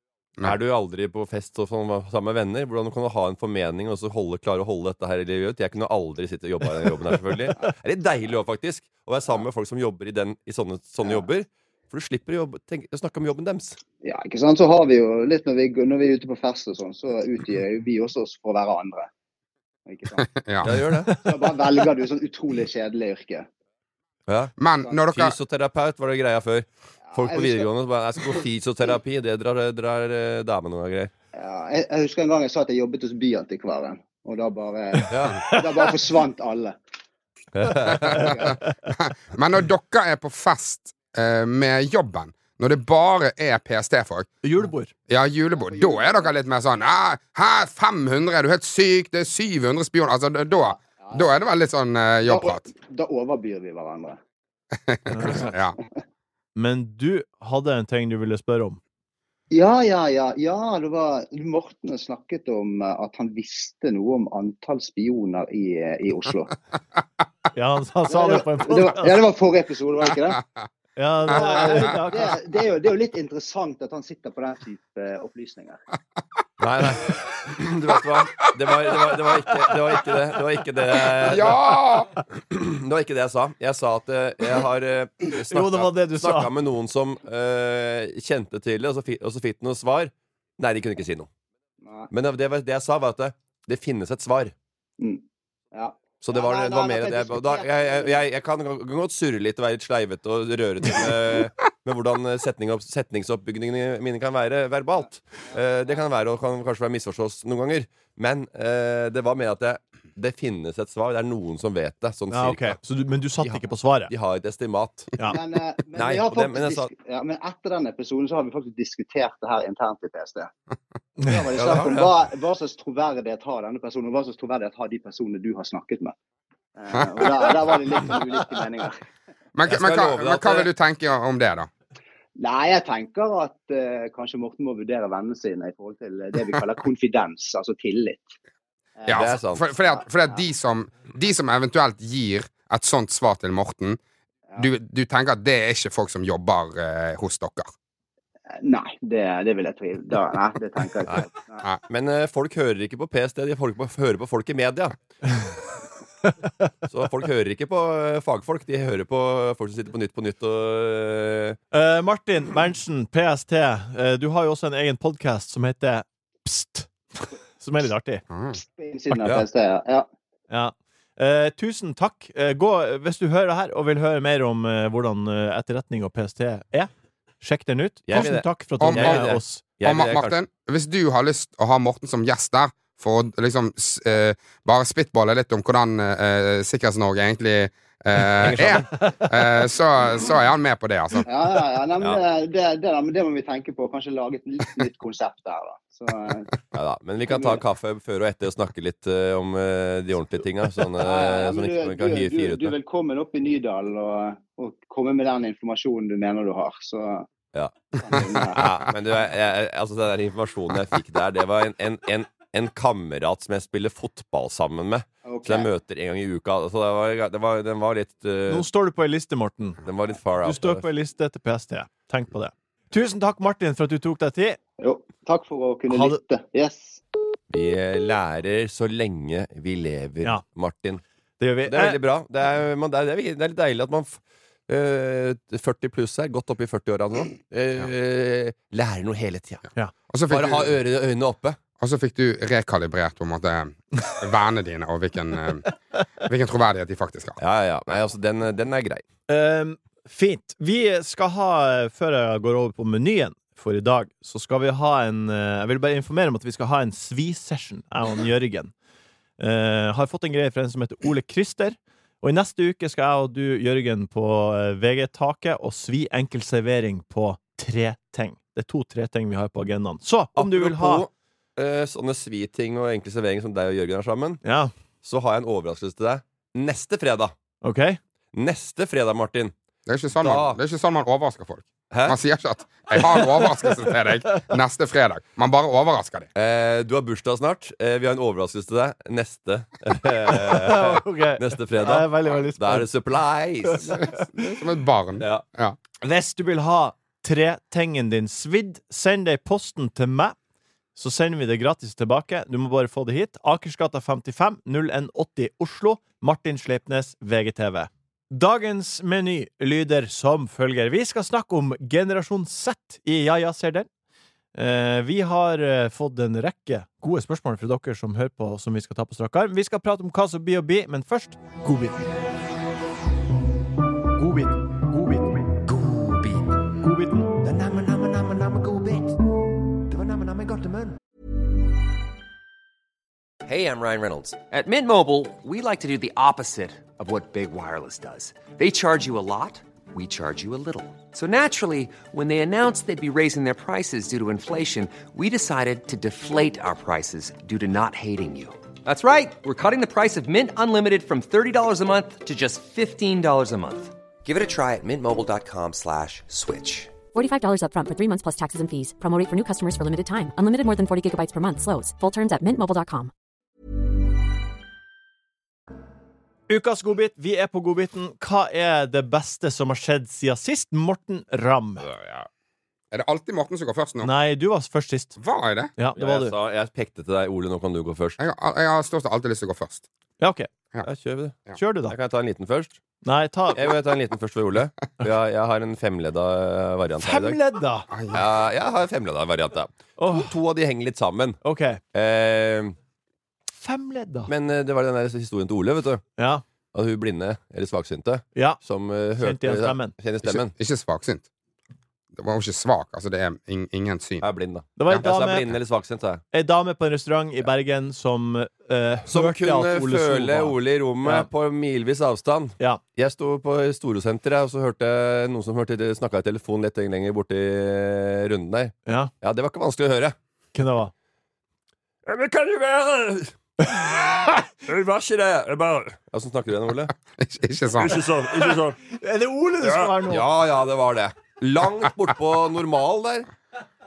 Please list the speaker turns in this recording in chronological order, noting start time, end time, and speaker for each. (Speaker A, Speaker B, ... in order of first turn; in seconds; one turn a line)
Speaker A: 0.4-13.8
Speaker B: 14.0-19.1
Speaker B: 19.9-20.3
Speaker C: 20.2-20.8
Speaker A: 20.6-21.2
Speaker B: 21.2-23.5
Speaker A: 24.3-24.5
Speaker C: 24.6-25.4
Speaker A: 25.1-31.1
Speaker B: 27.1-27.7
Speaker B: 31.4-36.8
Speaker A: 35.1-35.5
Speaker A: 37.5-38.4
Speaker B: 38.0-38.6
Speaker C: 39.0-44.3
Speaker D: 44.4-44.9
Speaker C: 45.1-52.7
Speaker B: 45.6-46.3
Speaker B: 50.7-51.3
Speaker B: 52.3-54.2
Speaker C: 54.9-55.8
Speaker D: 55.1-55.5
Speaker D: 56.6-58.8
Speaker B: 59.5-66.6
Speaker D: 67.5-69.2
Speaker B: 68.1-70.4
Speaker D: 71.0-72.4
Speaker B: 71.3-75.8
Speaker A: 76.6-81.8
Speaker C: 81.2-82.1
Speaker A: 82.5-91.3
Speaker D: 85.5-86.5
Speaker A: 92.1-94.5
Speaker B: 95.0-98.2
Speaker A: 96.2-112.8
Speaker D: 112.3-114.1
Speaker A: 113.4-115.3
Speaker B: 115.3-120.5
Speaker A: 116.0-116.9
Speaker B: 121.2-126.2
Speaker A: 121.5-122.1
Speaker B: 126.8-129.0
Speaker C: 129.6-131.7
Speaker A: 129.7-130.7
Speaker B: 132.4-138.3
Speaker B: 139.0-140.4
Speaker C: 139.1-144.0
Speaker A: 139.1-139.6
Speaker C: 144.6-147.7
Speaker B: 148.6-151.6
Speaker A: 151.9-155.0
Speaker A: 156.9-161.6
Speaker D: 161.7-168.2
Speaker C: 168.3-168.6
Speaker B: 168.5-170.1
Speaker D: 170.5-176.9
Speaker D: 177.4-179.6
Speaker A: 178.1-180.4
Speaker C: 178.8-179.3
Speaker C: 179.8-191.3
Speaker A: 188.4-188.9
Speaker B: 191.3-196.5
Speaker A: 196.7-202.8
Speaker B: 197.3-197.6
Speaker B: 201.0-207.3
Speaker A: 207.5-218.7
Speaker B: 207.9-208.8
Speaker B: 215.3-215.7
Speaker D: 218.5-219.8
Speaker A: 219.8-220.8
Speaker D: 220.4-224.6
Speaker B: 224.8-227.0
Speaker D: 225.9-226.2
Speaker A: 227.5-231.0
Speaker D: 231.4-232.0
Speaker A: 231.7-239.7
Speaker C: 240.1-240.8
Speaker A: 240.3-241.6
Speaker C: 241.8-245.7
Speaker C: 246.2-247.4
Speaker A: 247.4-249.0
Speaker D: 249.3-258.7
Speaker D: 259.4-271.1
Speaker A: 270.4-274.4
Speaker D: 274.4-274.7
Speaker A: 275.0-277.4
Speaker D: 277.6-278.0
Speaker A: 278.3-279.5
Speaker C: 279.9-286.3
Speaker A: 280.2-280.6
Speaker A: 281.9-282.2
Speaker A: 286.4-294.0
Speaker D: 290.3-292.9
Speaker D: 293.6-294.5
Speaker C: 294.4-295.8
Speaker D: 296.0-300.4
Speaker D: 301.0-313.9
Speaker D: 314.6-322.1
Speaker D: 324.2-325.4
Speaker E: 325.6-326.8
Speaker D: 326.8-327.4
Speaker E: 327.4-329.2
Speaker E: 329.9-331.0
Speaker E: 333.4-356.9
Speaker F: 357.1-363.1
Speaker D: 366.5-371.8
Speaker A: 371.8-372.3
Speaker C: 372.9-374.1
Speaker D: 374.0-375.2
Speaker C: 375.2-375.7
Speaker D: 375.8-376.3
Speaker A: 376.0-378.2
Speaker C: 378.2-379.9
Speaker D: 380.2-380.5
Speaker A: 380.8-382.8
Speaker D: 381.6-381.9
Speaker D: 383.0-383.6
Speaker A: 383.6-387.4
Speaker D: 387.0-387.9
Speaker C: 387.9-388.2
Speaker A: 388.1-391.4
Speaker D: 390.0-390.3
Speaker D: 391.4-391.8
Speaker A: 391.9-392.8
Speaker D: 393.6-394.3
Speaker A: 394.3-396.0
Speaker D: 396.2-396.4
Speaker A: 396.7-400.5
Speaker D: 399.2-399.9
Speaker C: 400.2-401.3
Speaker C: 402.1-404.2
Speaker A: 404.2-406.2
Speaker D: 404.8-405.5
Speaker D: 406.3-411.3
Speaker A: 409.1-420.1
Speaker D: 420.6-420.9
Speaker A: 422.1-426.9
Speaker C: 427.2-428.0
Speaker A: 427.8-428.8
Speaker D: 428.2-430.2
Speaker A: 429.6-433.3